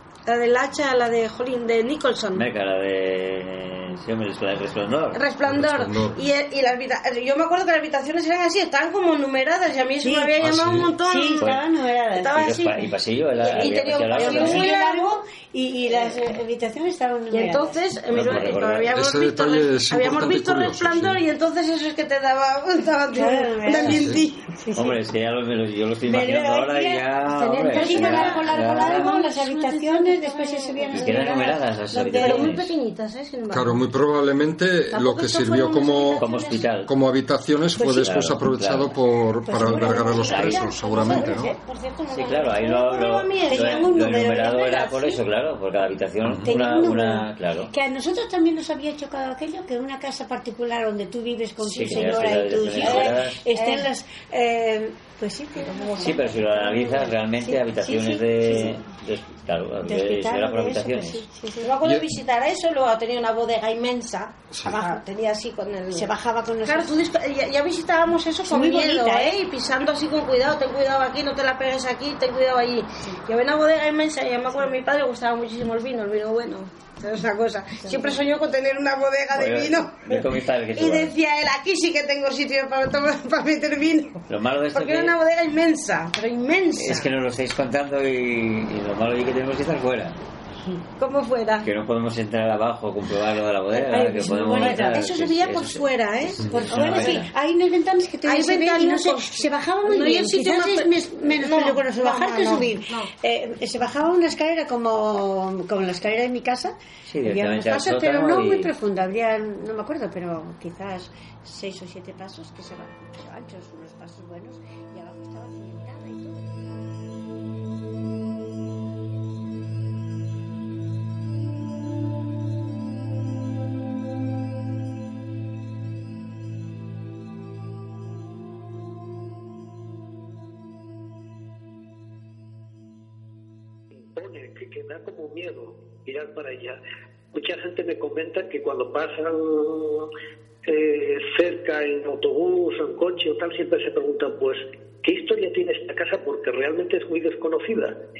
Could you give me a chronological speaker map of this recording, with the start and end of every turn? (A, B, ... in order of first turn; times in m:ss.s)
0:00.2-0:02.5 A
0:02.4-0:05.2 B
0:05.1-0:11.5 A
0:05.4-0:06.2 C
0:10.0-0:12.5 D
0:10.4-0:10.9 C
0:12.2-0:15.2 A
0:12.4-0:14.7 B
0:13.5-0:17.7 D
0:15.9-0:16.2 A
0:17.3-0:24.5 A
0:18.1-0:18.9 B
0:18.2-0:21.2 C
0:23.1-0:25.0 D
0:23.8-0:24.2 C
0:24.8-0:29.1 B
0:26.0-0:27.1 D
0:27.4-0:31.5 A
0:27.7-0:32.5 D
0:30.9-0:32.7 B
0:32.2-0:33.8 A
0:33.5-0:36.2 C
0:34.9-0:36.7 A
0:36.2-0:36.9 B
0:36.8-0:41.5 C
0:37.8-0:39.0 B
0:39.5-0:41.6 D
0:39.6-0:43.9 A
0:42.1-0:47.7 B
0:43.5-0:45.2 D
0:46.4-0:58.8 D
0:51.6-0:53.4 B
0:52.8-0:53.9 A
0:55.6-0:56.2 A
0:56.0-1:01.3 B
0:59.9-1:01.7 D
1:01.6-1:06.1 A
1:04.5-1:04.8 C
1:04.6-1:05.0 D
1:05.9-1:07.0 D
1:06.6-1:27.1 A
1:08.5-1:09.4 D
1:17.8-1:18.2 D
1:19.3-1:21.1 B
1:24.3-1:25.2 B
1:26.8-1:30.2 B
1:31.0-1:31.7 A
1:31.6-1:37.3 B
1:33.7-1:37.2 A
1:33.9-1:35.0 D
1:36.5-1:56.6 D
1:38.2-1:43.1 A
1:47.1-1:48.7 B
2:14.1-2:16.8 E
2:17.3-2:20.1 E
2:20.7-2:28.0 E